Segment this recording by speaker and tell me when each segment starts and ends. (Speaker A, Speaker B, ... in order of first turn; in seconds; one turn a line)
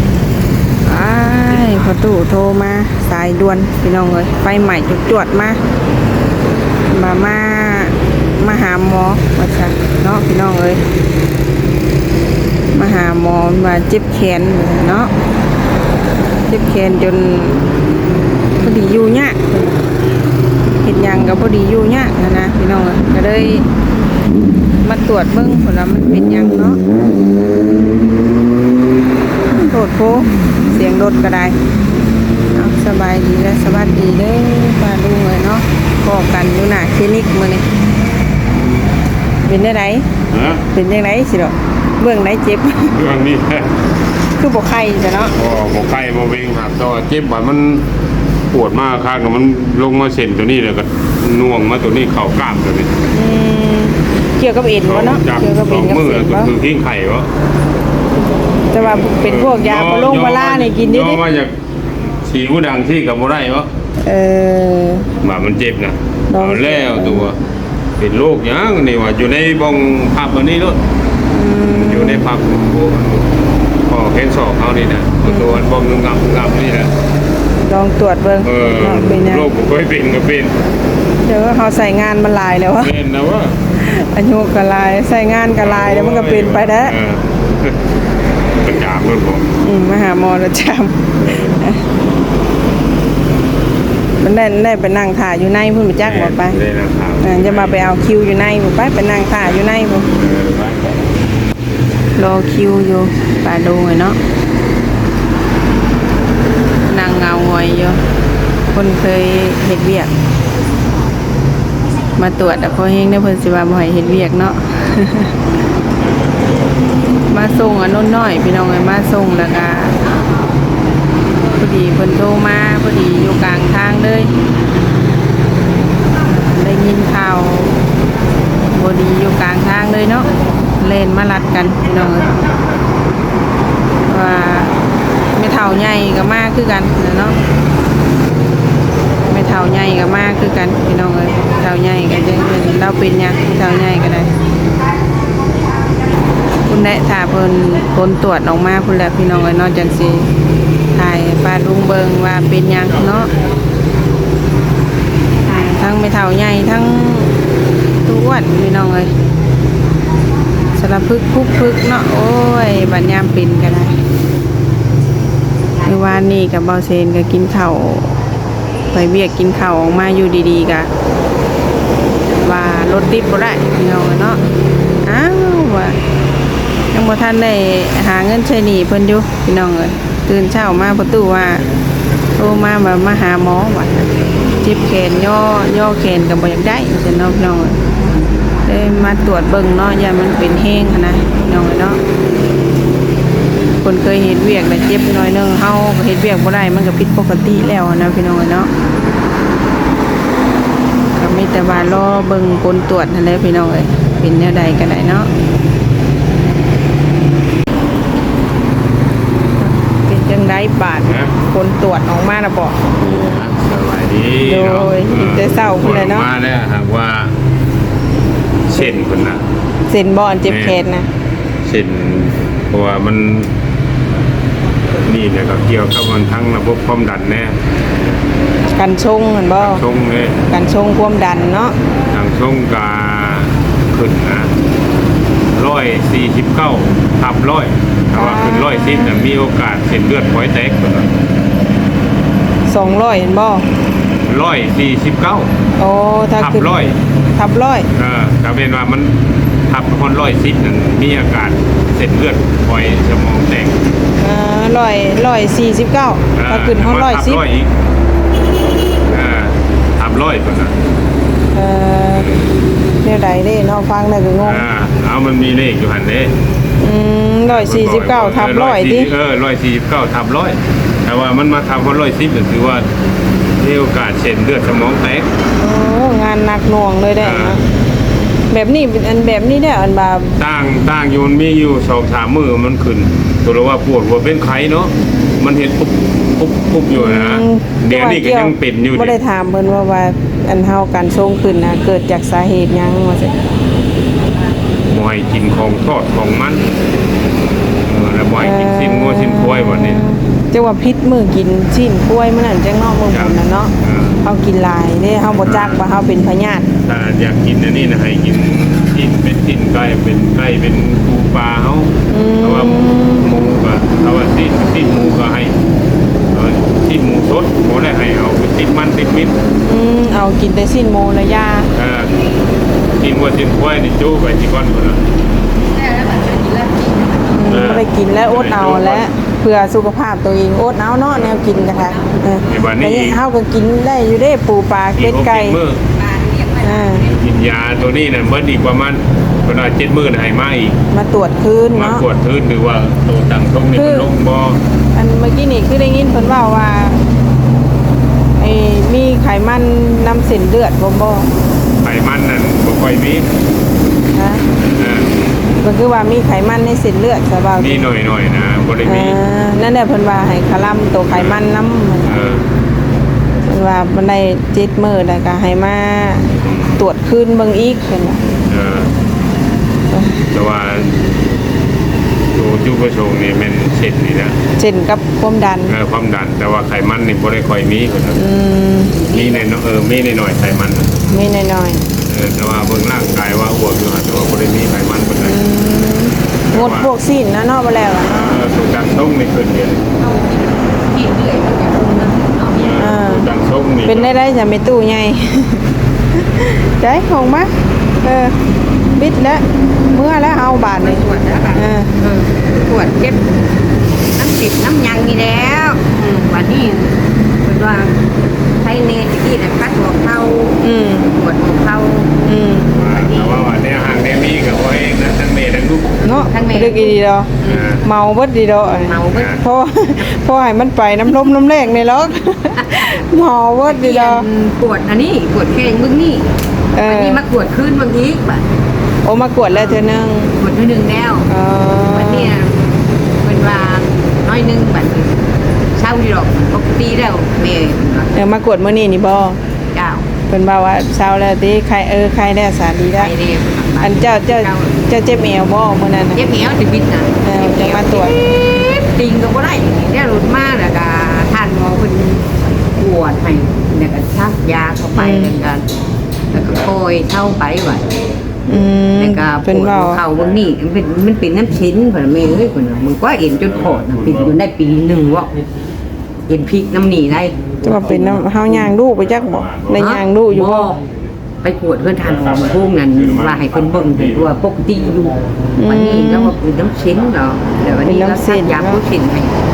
Speaker A: 0.8-5.6
Speaker A: 6.9-10.8
Speaker A: 12.7-15.1
Speaker A: 16.5-17.6
Speaker A: 18.6-19.4
Speaker A: 20.8-23.6
Speaker A: 24.8-26.8
Speaker A: 29.5-31.6
Speaker A: 32.5-37.6
Speaker A: 39.4-40.1
Speaker B: 40.3-40.6
Speaker A: 40.7-42.9
Speaker B: 42.9-43.7
Speaker A: 44.4-45.3
Speaker B: 45.3-47.8
Speaker B: 48.5-52.9
Speaker A: 53.1-56.5
Speaker B: 54.8-57.3
Speaker A: 58.7-61.2
Speaker B: 58.7-61.5
Speaker B: 62.2-63.7
Speaker A: 64.0-65.1
Speaker B: 65.2-67.4
Speaker A: 66.3-67.2
Speaker B: 68.0-70.8
Speaker A: 71.3-72.2
Speaker B: 71.7-73.3
Speaker B: 73.8-76.9
Speaker A: 75.2-75.6
Speaker A: 77.7-79.5
Speaker B: 78.4-80.6
Speaker A: 81.2-82.9
Speaker B: 82.8-83.6
Speaker A: 83.8-86.9
Speaker B: 85.6-87.8
Speaker B: 88.6-89.5
Speaker A: 89.6-91.8
Speaker B: 91.2-91.6
Speaker A: 94.2-96.6
Speaker B: 96.0-97.8
Speaker A: 97.2-100.1
Speaker B: 100.1-101.0
Speaker A: 102.1-104.2
Speaker A: 106.9-108.0
Speaker A: 108.7-110.1
Speaker A: 112.2-115.3
Speaker A: 117.3-120.0
Speaker A: 121.6-124.3
Speaker A: 126.4-127.7
Speaker A: 128.7-130.2
Speaker A: 130.8-132.4
Speaker A: 134.1-134.7
Speaker A: 135.3-137.3
Speaker A: 139.3-144.3
Speaker A: 146.7-150.3
Speaker A: 150.9-153.3
Speaker A: 155.6-157.3
Speaker A: 158.0-159.1
Speaker A: 160.8-163.9
Speaker A: 165.8-168.1
Speaker A: 168.9-170.9
Speaker A: 172.4-174.4
Speaker A: 175.0-176.0
Speaker A: 176.9-181.6
Speaker A: 182.3-183.9
Speaker A: 184.6-187.8
Speaker A: 188.7-192.0
Speaker A: 193.8-198.7
Speaker A: 201.2-205.3
Speaker A: 209.4-212.8
Speaker B: 213.0-217.3
Speaker A: 214.4-216.3
Speaker B: 218.7-219.4
Speaker A: 219.9-221.1
Speaker B: 220.4-220.8
Speaker B: 221.6-223.5
Speaker B: 225.0-227.6
Speaker A: 228.7-229.8
Speaker B: 229.6-230.4
Speaker A: 230.5-231.7
Speaker B: 232.1-234.5
Speaker B: 235.5-241.1
Speaker A: 238.1-239.1
Speaker A: 242.7-243.7
Speaker B: 244.2-245.5
Speaker A: 245.8-246.7
Speaker B: 246.4-247.0
Speaker A: 247.3-247.9
Speaker B: 247.9-249.2
Speaker B: 249.7-253.8
Speaker A: 254.2-257.4
Speaker B: 256.3-257.7
Speaker B: 259.1-260.7
Speaker A: 261.5-262.3
Speaker B: 262.2-262.5
Speaker A: 263.0-264.6
Speaker B: 264.4-266.3
Speaker A: 266.8-269.1
Speaker B: 267.5-272.9
Speaker B: 273.6-275.3
Speaker A: 275.6-277.6
Speaker B: 277.2-277.6
Speaker A: 278.5-280.4
Speaker B: 280.4-289.2
Speaker A: 286.9-293.3
Speaker B: 294.9-296.6
Speaker B: 297.8-300.0
Speaker A: 298.4-306.6
Speaker B: 303.1-304.2
Speaker B: 305.3-305.8
Speaker B: 306.8-315.5
Speaker A: 312.1-313.3
Speaker B: 316.3-319.3
Speaker A: 319.6-321.7
Speaker B: 321.7-322.1
Speaker B: 323.0-325.0
Speaker C: 325.7-327.3
Speaker A: 327.3-335.6
Speaker B: 327.5-329.1
Speaker C: 331.5-332.6
Speaker B: 332.4-333.2
Speaker B: 335.0-335.8
Speaker C: 335.9-337.2
Speaker A: 336.6-337.0
Speaker B: 337.1-340.8
Speaker A: 340.9-342.0
Speaker B: 341.7-344.6
Speaker A: 343.7-344.1
Speaker A: 344.9-347.0
Speaker A: 348.4-351.3
Speaker B: 351.8-353.3
Speaker A: 354.1-354.4
Speaker B: 354.6-355.1
Speaker A: 355.6-357.8
Speaker B: 357.6-359.2
Speaker A: 358.8-362.1
Speaker B: 361.1-361.4
Speaker B: 362.0-362.4
Speaker A: 363.4-368.2
Speaker B: 366.4-366.8
Speaker B: 368.5-368.9
Speaker A: 369.9-370.2
Speaker B: 370.3-371.0
Speaker B: 372.3-374.4
Speaker A: 374.6-375.7
Speaker B: 375.7-378.2
Speaker A: 378.1-379.0
Speaker B: 379.1-380.9
Speaker A: 381.1-381.8
Speaker B: 382.1-385.4
Speaker A: 385.2-388.4
Speaker B: 386.5-386.9
Speaker B: 388.0-389.8
Speaker C: 390.0-392.7
Speaker B: 392.6-394.1
Speaker A: 392.8-393.3
Speaker A: 393.8-395.6
Speaker A: 396.4-397.5
Speaker A: 398.0-398.4
Speaker A: 398.9-401.0
Speaker C: 400.7-403.2
Speaker A: 401.5-401.9
Speaker C: 404.1-407.9
Speaker C: 408.6-412.2
Speaker A: 410.6-411.1
Speaker A: 412.2-412.7
Speaker B: 412.7-416.0
Speaker C: 412.9-413.4
Speaker A: 416.0-424.2
Speaker C: 416.1-417.8
Speaker B: 417.4-417.8
Speaker C: 418.6-419.4
Speaker B: 419.1-419.4
Speaker C: 422.5-423.0
Speaker C: 423.7-426.2
Speaker A: 426.7-427.2
Speaker C: 426.8-428.4
Speaker A: 429.0-430.3
Speaker C: 429.5-429.9
Speaker C: 430.4-431.3
Speaker A: 431.3-432.3
Speaker C: 431.9-438.1
Speaker A: 438.1-439.4
Speaker C: 439.7-440.0
Speaker A: 440.3-443.1
Speaker C: 442.9-444.8
Speaker A: 443.8-446.2
Speaker C: 446.1-455.6
Speaker A: 447.2-448.1
Speaker A: 455.0-455.3
Speaker C: 456.3-457.9
Speaker A: 458.5-460.0
Speaker C: 459.0-465.3
Speaker B: 463.6-464.3
Speaker C: 466.3-468.7
Speaker A: 467.6-470.8
Speaker B: 469.3-469.8
Speaker C: 469.7-470.8
Speaker C: 471.4-479.4
Speaker B: 472.0-474.2
Speaker A: 475.6-476.3
Speaker A: 477.8-478.8